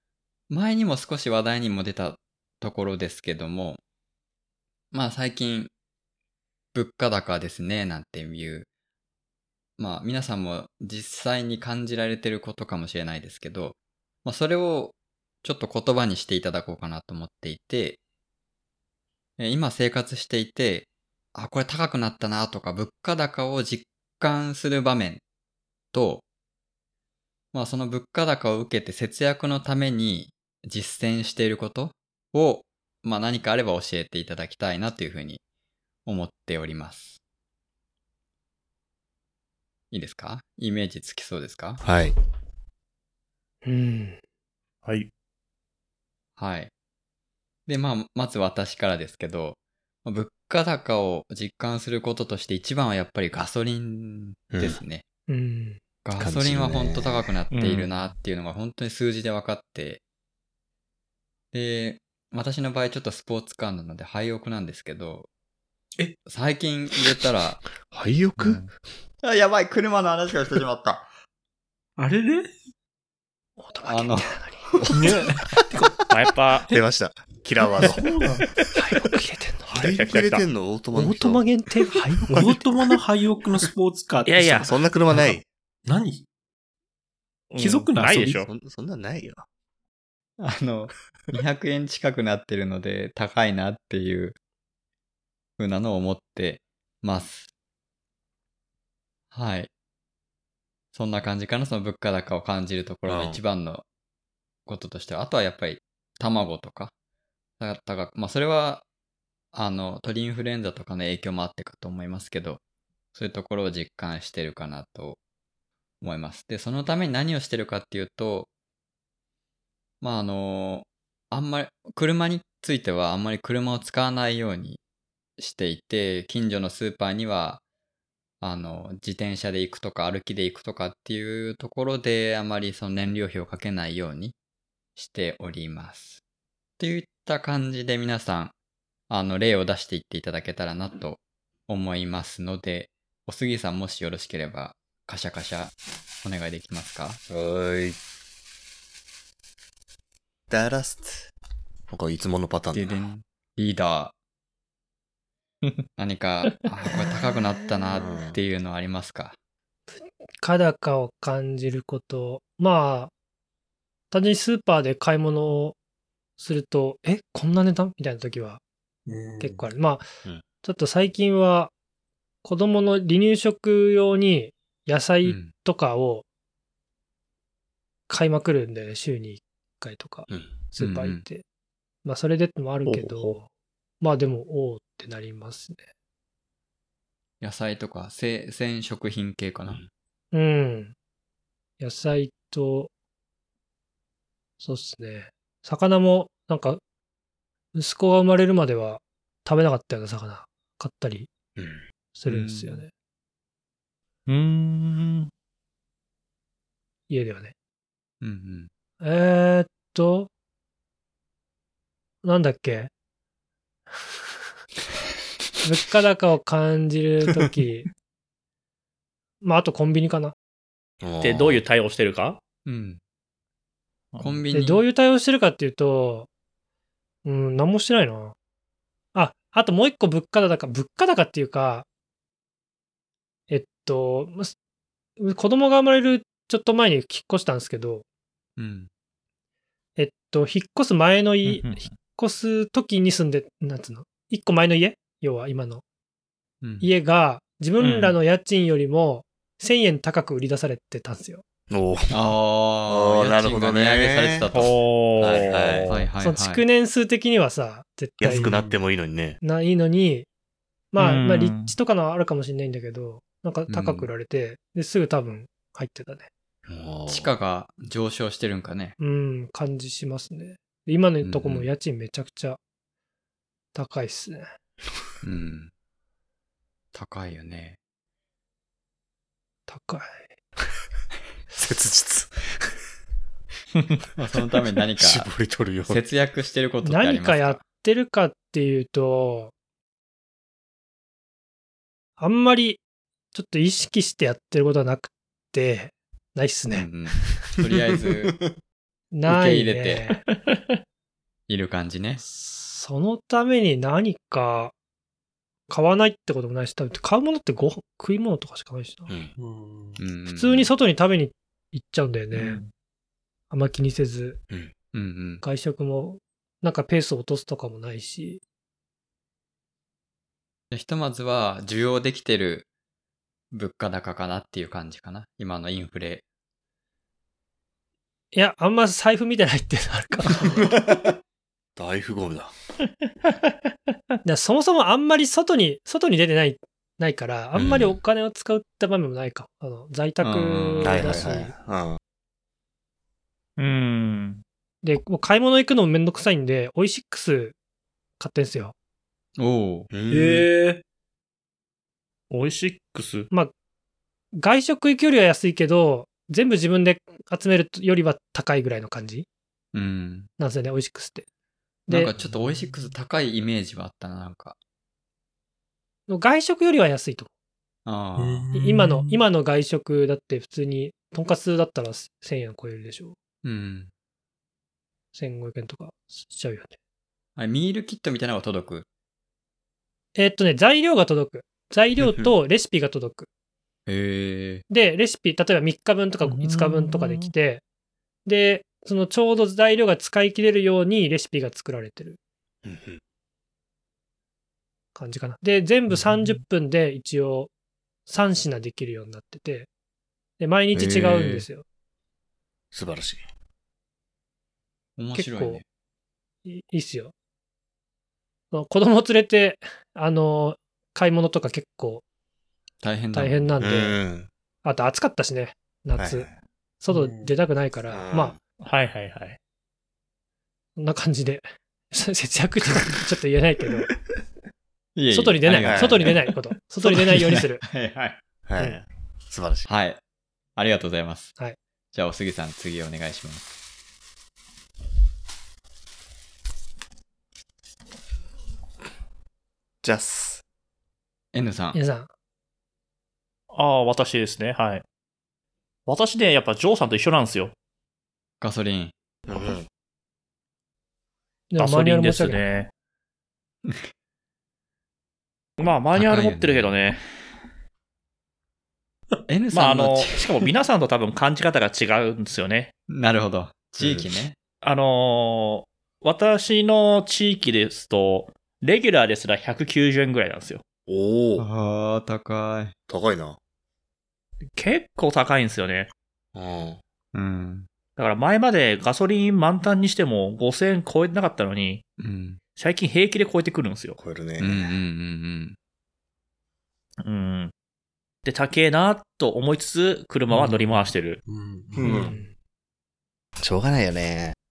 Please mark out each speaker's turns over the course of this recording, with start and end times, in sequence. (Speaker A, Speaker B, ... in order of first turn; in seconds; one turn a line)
Speaker A: 0.5-3.8
Speaker A: 4.9-5.7
Speaker A: 6.7-8.7
Speaker A: 9.8-18.0
Speaker A: 19.4-25.2
Speaker A: 25.9-26.2
Speaker A: 27.5-35.4
Speaker A: 36.0-37.2
Speaker A: 39.9-41.8
Speaker B: 41.8-42.1
Speaker C: 43.6-44.2
Speaker A: 46.4-46.7
Speaker A: 47.7-55.0
Speaker B: 54.5-54.8
Speaker C: 55.3-55.8
Speaker A: 56.0-60.0
Speaker B: 56.2-57.3
Speaker D: 57.5-57.9
Speaker A: 61.5-65.3
Speaker A: 66.2-67.6
Speaker B: 67.9-68.6
Speaker D: 68.4-68.7
Speaker A: 69.2-71.1
Speaker E: 72.0-72.5
Speaker C: 73.6-74.8
Speaker A: 73.8-74.8
Speaker E: 74.9-76.0
Speaker D: 76.1-76.7
Speaker B: 76.7-78.0
Speaker E: 77.8-78.5
Speaker C: 78.7-79.7
Speaker D: 79.7-80.4
Speaker B: 79.7-81.5
Speaker C: 80.9-82.6
Speaker E: 82.3-85.3
Speaker B: 82.3-82.6
Speaker D: 84.2-84.7
Speaker B: 84.6-85.5
Speaker E: 85.9-86.3
Speaker D: 87.5-88.5
Speaker E: 87.6-88.4
Speaker B: 88.5-89.5
Speaker A: 90.4-94.4
Speaker A: 95.6-97.5
Speaker A: 99.3-99.7
Speaker A: 100.9-103.8
Speaker B: 103.1-103.4
Speaker A: 104.7-106.9
Speaker A: 107.6-108.8
Speaker A: 109.5-112.6
Speaker A: 113.1-115.2
Speaker A: 116.0-118.5
Speaker A: 120.0-124.8
Speaker A: 125.4-127.6
Speaker A: 128.4-134.3
Speaker A: 135.0-136.2
Speaker A: 136.8-138.5
Speaker A: 139.1-147.2
Speaker B: 147.3-148.0
Speaker B: 150.5-151.3
Speaker B: 151.9-153.0
Speaker A: 152.7-154.1
Speaker A: 156.0-159.4
Speaker B: 158.0-158.4
Speaker C: 159.9-163.1
Speaker C: 164.1-165.8
Speaker C: 166.4-168.6
Speaker E: 169.1-169.6
Speaker C: 169.4-170.1
Speaker C: 170.6-171.7
Speaker C: 172.4-176.2
Speaker A: 175.2-175.5
Speaker C: 178.1-181.4
Speaker A: 180.8-181.2
Speaker C: 182.1-183.5
Speaker D: 182.9-183.3
Speaker C: 184.0-185.8
Speaker A: 187.4-189.8
Speaker C: 190.3-190.9
Speaker C: 191.8-192.9
Speaker C: 194.6-196.8
Speaker C: 197.7-201.3
Speaker B: 201.6-201.8
Speaker C: 202.2-202.9
Speaker A: 202.3-202.8
Speaker D: 204.3-205.3
Speaker C: 207.1-207.5
Speaker A: 208.2-208.7
Speaker C: 209.0-210.3
Speaker C: 212.2-212.9
Speaker C: 215.6-217.9
Speaker C: 219.4-220.3
Speaker B: 221.0-221.6
Speaker D: 221.2-222.4
Speaker A: 222.7-223.0
Speaker D: 224.1-224.4
Speaker A: 224.2-224.8
Speaker C: 224.5-226.3
Speaker C: 227.2-228.3
Speaker C: 229.2-231.8
Speaker C: 233.5-234.5
Speaker C: 235.2-238.0
Speaker A: 238.6-238.9
Speaker C: 240.0-245.8
Speaker D: 241.4-241.9
Speaker A: 246.6-246.9
Speaker C: 246.8-251.4
Speaker D: 247.8-248.2
Speaker B: 251.7-252.1
Speaker A: 252.1-254.8
Speaker B: 252.9-254.5
Speaker D: 254.5-256.1
Speaker B: 255.2-255.9
Speaker A: 255.9-256.6
Speaker C: 256.2-258.6
Speaker B: 258.2-259.4
Speaker E: 258.2-258.7
Speaker C: 259.4-260.3
Speaker C: 260.9-266.3
Speaker D: 261.0-261.7
Speaker A: 263.7-264.1
Speaker B: 266.7-267.3
Speaker A: 267.1-269.0
Speaker C: 269.0-272.6
Speaker A: 271.2-271.7
Speaker C: 273.7-274.4
Speaker A: 275.2-275.7
Speaker A: 276.9-277.8
Speaker C: 279.7-280.2
Speaker B: 281.5-282.7
Speaker A: 284.2-285.3
Speaker B: 285.0-286.0
Speaker A: 285.9-287.6
Speaker C: 286.8-289.5
Speaker C: 292.2-292.8
Speaker C: 293.3-296.9
Speaker A: 296.7-298.4
Speaker C: 299.1-300.2
Speaker A: 299.3-300.1
Speaker D: 300.3-300.6
Speaker A: 301.5-302.2
Speaker C: 302.2-304.7
Speaker C: 305.7-309.1
Speaker E: 309.4-310.0
Speaker A: 310.0-310.7
Speaker C: 310.3-312.6
Speaker D: 312.3-312.7
Speaker C: 313.5-314.4
Speaker A: 314.9-315.4
Speaker C: 315.4-318.4
Speaker A: 320.7-322.7
Speaker A: 323.5-326.2
Speaker C: 328.3-330.8
Speaker B: 330.4-331.0
Speaker B: 331.8-332.5
Speaker C: 334.2-341.5
Speaker B: 337.6-338.0
Speaker A: 340.2-341.2
Speaker B: 340.8-342.0
Speaker D: 343.6-344.4
Speaker C: 344.8-347.6
Speaker C: 348.2-348.7
Speaker A: 349.4-349.9
Speaker B: 349.9-350.5
Speaker E: 350.1-350.8
Speaker D: 352.3-353.3
Speaker C: 354.4-359.3
Speaker A: 359.7-360.3
Speaker C: 360.4-361.2
Speaker C: 361.9-362.1
Speaker A: 361.9-364.6
Speaker C: 366.1-367.3
Speaker A: 367.9-368.5
Speaker E: 368.2-369.2
Speaker C: 368.6-373.2
Speaker A: 373.4-373.9
Speaker C: 375.1-376.8
Speaker A: 377.4-378.9
Speaker C: 380.2-383.3
Speaker B: 382.0-382.3
Speaker A: 383.9-384.6
Speaker C: 384.7-387.6
Speaker D: 386.2-387.3
Speaker C: 388.3-392.2
Speaker B: 392.6-393.0
Speaker C: 394.9-397.5
Speaker D: 395.9-396.4
Speaker C: 398.1-399.7
Speaker C: 400.4-401.6
Speaker B: 400.7-401.5
Speaker B: 402.7-403.2
Speaker A: 405.0-405.6
Speaker C: 405.1-405.6
Speaker C: 406.4-407.1
Speaker C: 408.5-412.0
Speaker A: 412.8-413.5
Speaker C: 413.1-414.0
Speaker B: 413.6-414.3
Speaker C: 414.6-416.3
Speaker B: 416.0-416.4
Speaker C: 416.8-418.4
Speaker E: 416.9-417.3
Speaker B: 417.9-418.4
Speaker D: 418.6-419.4
Speaker C: 420.8-423.9
Speaker A: 425.0-428.2
Speaker C: 425.1-427.6
Speaker B: 425.6-426.2
Speaker B: 428.5-429.7
Speaker A: 429.7-430.0
Speaker A: 430.6-431.3
Speaker A: 431.9-433.5
Speaker B: 439.8-440.4
Speaker A: 441.3-441.8
Speaker C: 441.7-442.1
Speaker D: 443.5-444.8
Speaker D: 445.9-447.5
Speaker A: 448.4-448.9
Speaker B: 449.3-449.7
Speaker C: 451.5-452.6
Speaker D: 451.6-452.7
Speaker D: 455.6-457.0
Speaker A: 455.9-456.8
Speaker A: 459.3-460.4
Speaker D: 459.5-462.7
Speaker A: 462.9-464.4
Speaker B: 463.8-464.1
Speaker D: 464.6-470.6
Speaker B: 470.9-471.4
Speaker A: 471.4-472.8
Speaker B: 472.9-473.4
Speaker D: 474.5-475.9
Speaker B: 476.4-476.8
Speaker A: 477.1-477.7
Speaker D: 478.0-481.8
Speaker A: 482.0-482.4
Speaker D: 482.6-484.0
Speaker B: 484.0-484.7
Speaker A: 484.4-485.6
Speaker D: 487.0-487.5
Speaker D: 488.2-491.2
Speaker E: 490.3-492.2
Speaker B: 491.8-492.2
Speaker C: 491.8-492.3
Speaker B: 493.4-494.4